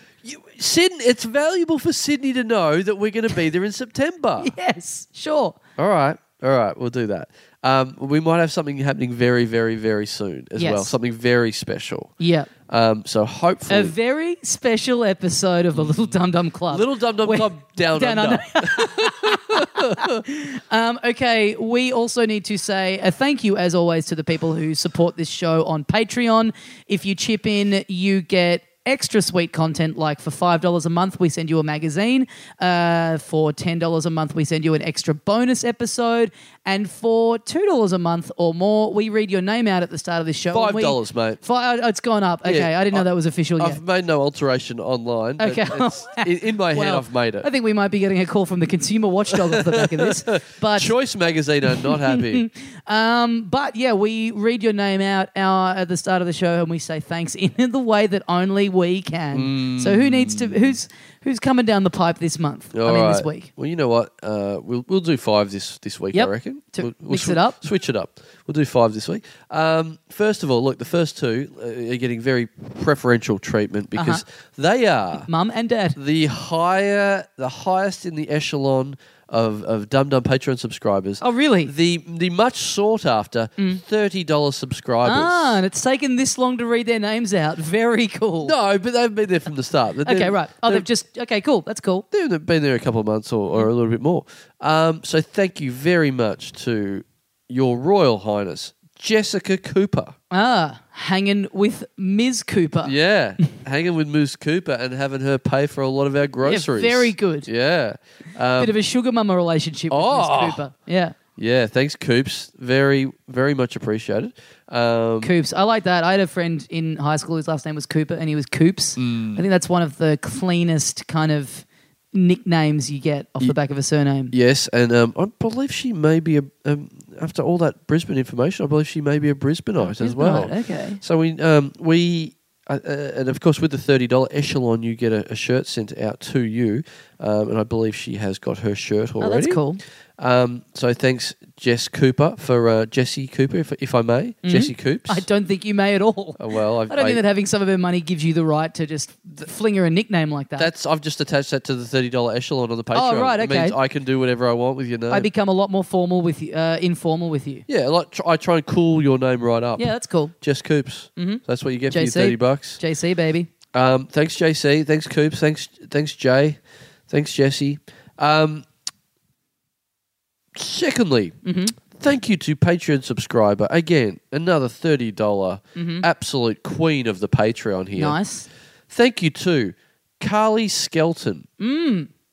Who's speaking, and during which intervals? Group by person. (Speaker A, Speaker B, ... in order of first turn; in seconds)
Speaker A: 0.2-4.5, 5.8-12.1, 12.7-13.9, 15.7-16.1, 16.7-20.2, 40.5-41.4, 42.4-43.0, 43.6-47.5, 49.3-52.5, 59.3-60.7, 62.7-75.3, 76.0-85.6, 88.4-90.8, 92.1-100.1, 102.8-108.7, 109.9-110.6, 111.4-115.3, 119.0-119.4, 124.3-139.6, 140.2-145.2, 146.4-147.2, 150.6-155.3, 157.7-159.8, 160.4-162.8, 163.7-168.7, 170.5-171.4, 171.9-178.2, 178.9-181.5
Speaker B: 4.4-5.6, 10.6-10.9, 12.2-12.5, 13.7-43.8, 45.4-50.9, 51.7-63.5, 66.1-67.5, 73.9-74.2, 75.3-76.0, 81.2-81.7, 85.0-88.5, 90.0-92.0, 100.3-102.9, 106.4-107.5, 108.6-111.2, 115.2-124.3, 129.8-131.0, 139.2-139.8, 144.4-150.7, 152.9-153.8, 155.1-157.7, 159.8-160.3, 161.2-163.5, 171.4-171.7, 175.8-176.1, 177.9-178.5, 181.6-182.1